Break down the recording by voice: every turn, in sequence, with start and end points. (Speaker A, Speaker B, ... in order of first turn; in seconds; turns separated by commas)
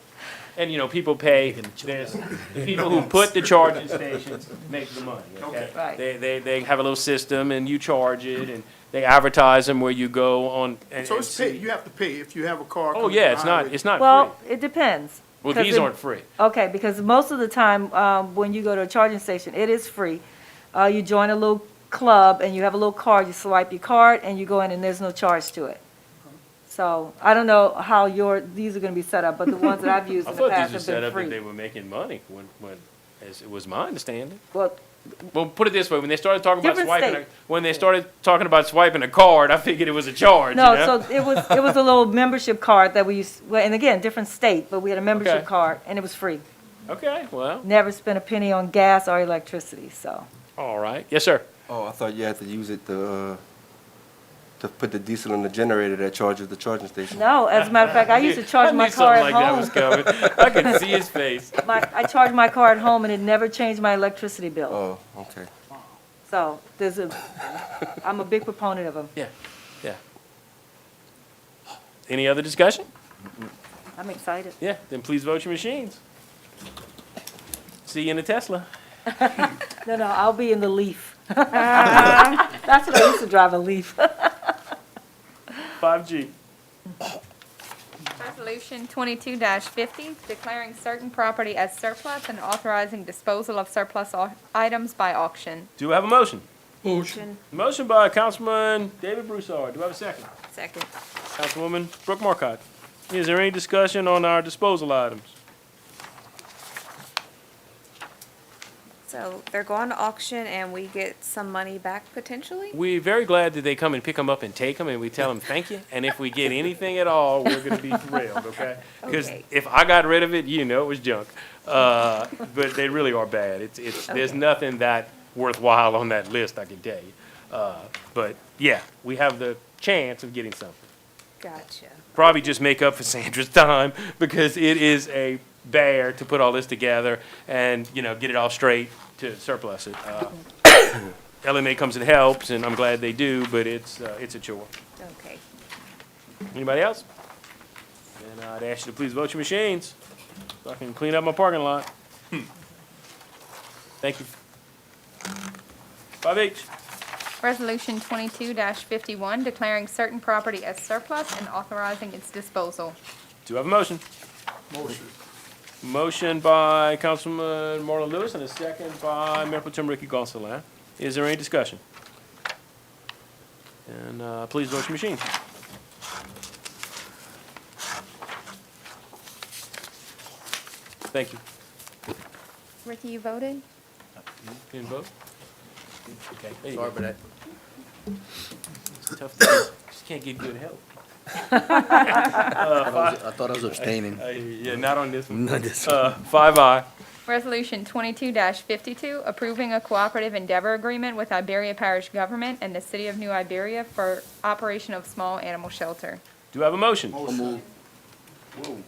Speaker A: 0.6-11.6, Speaker B: 2.3-3.5, Speaker B: 5.4-5.7, Speaker C: 5.8-6.0, Speaker B: 11.0-13.8, Speaker A: 12.9-14.3, Speaker C: 14.0-25.8, Speaker A: 15.4-16.3, Speaker C: 26.7-31.4, Speaker A: 30.2-34.4, Speaker C: 34.5-34.8, Speaker A: 35.3-41.5, Speaker C: 36.6-37.3, Speaker C: 40.5-46.4, Speaker A: 45.1-45.5, Speaker A: 46.9-47.7, Speaker C: 47.6-50.3, Speaker A: 50.6-51.5, Speaker D: 51.7-53.4, Speaker D: 54.6-57.2, Speaker C: 57.1-61.0, Speaker A: 57.5-61.7, Speaker C: 61.6-64.8, Speaker D: 64.7-65.5, Speaker C: 66.3-69.1, Speaker A: 72.1-72.9, Speaker C: 74.0-74.6, Speaker A: 74.6-76.0, Speaker A: 77.8-78.7, Speaker C: 79.1-84.5, Speaker A: 85.8-86.3, Speaker E: 88.2-95.7, Speaker A: 95.8-96.5, Speaker F: 96.9-97.4, Speaker A: 97.5-100.3, Speaker F: 100.5-100.9, Speaker A: 101.3-105.3, Speaker F: 109.1-112.8, Speaker A: 112.7-130.9, Speaker F: 119.0-119.4, Speaker F: 131.4-132.1, Speaker A: 132.1-140.4, Speaker A: 141.4-144.7, Speaker F: 145.0-145.4, Speaker A: 146.5-147.1, Speaker A: 148.2-150.0, Speaker A: 150.6-151.9, Speaker A: 154.0-154.3, Speaker A: 156.2-156.7, Speaker E: 157.4-163.0, Speaker A: 163.4-164.0, Speaker B: 164.7-165.1, Speaker A: 165.8-171.8, Speaker A: 173.9-175.2, Speaker A: 181.1-181.4, Speaker E: 182.8-183.6, Speaker A: 184.7-185.1, Speaker A: 186.6-187.0, Speaker G: 186.6-187.2, Speaker A: 189.0-190.8, Speaker A: 191.4-196.9, Speaker G: 192.8-194.2, Speaker G: 195.4-196.0, Speaker E: 197.3-206.2, Speaker A: 206.5-207.3, Speaker B: 207.1-207.7